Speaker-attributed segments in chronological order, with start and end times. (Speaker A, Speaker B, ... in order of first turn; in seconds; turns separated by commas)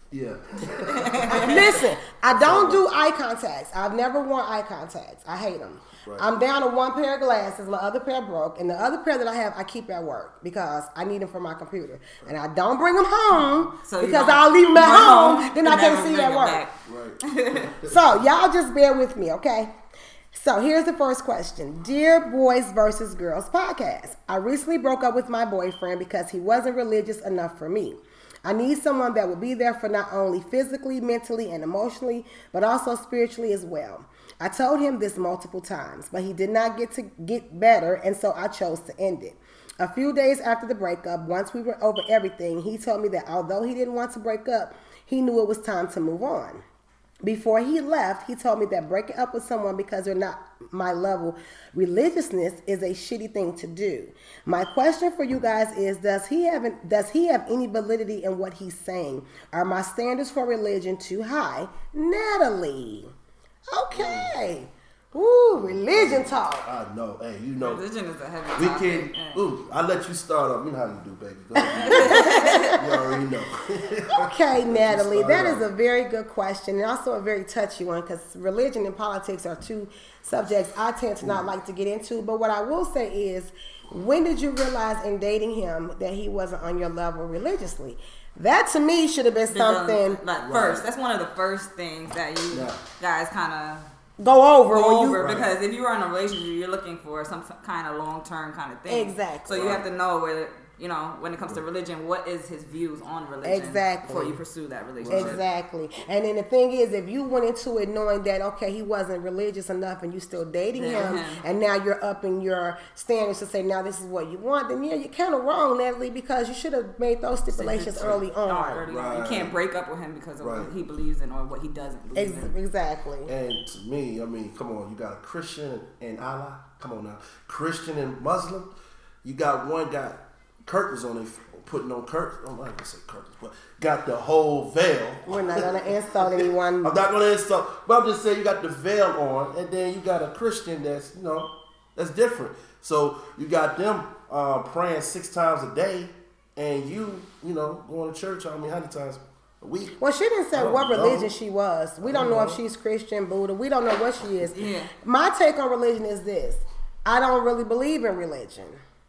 Speaker A: 0.1-2.9, Speaker B: 1.0-1.6, Speaker C: 1.3-16.6, Speaker B: 13.4-17.7, Speaker A: 16.9-18.2, Speaker C: 17.9-19.7, Speaker C: 20.3-46.6, Speaker C: 47.2-63.1, Speaker C: 63.7-66.7, Speaker A: 63.9-64.3, Speaker A: 65.5-67.8, Speaker B: 67.6-69.5, Speaker A: 68.5-75.7, Speaker C: 71.6-72.8, Speaker B: 71.8-72.8, Speaker C: 74.1-90.2, Speaker B: 89.5-93.9, Speaker A: 90.4-90.9, Speaker A: 92.5-92.8, Speaker C: 94.2-95.2, Speaker B: 94.7-105.4, Speaker A: 95.2-95.5, Speaker C: 98.9-99.6, Speaker A: 99.5-99.8, Speaker C: 103.4-104.4, Speaker A: 105.0-105.4, Speaker C: 105.1-118.8, Speaker B: 110.7-111.4, Speaker B: 117.5-122.5, Speaker A: 118.9-119.5, Speaker A: 120.4-120.7, Speaker C: 122.2-123.3, Speaker A: 123.3-128.7, Speaker A: 129.2-150.0, Speaker C: 135.3-137.0, Speaker C: 150.0-158.8, Speaker A: 150.5-151.3, Speaker A: 152.0-152.6, Speaker B: 154.5-154.9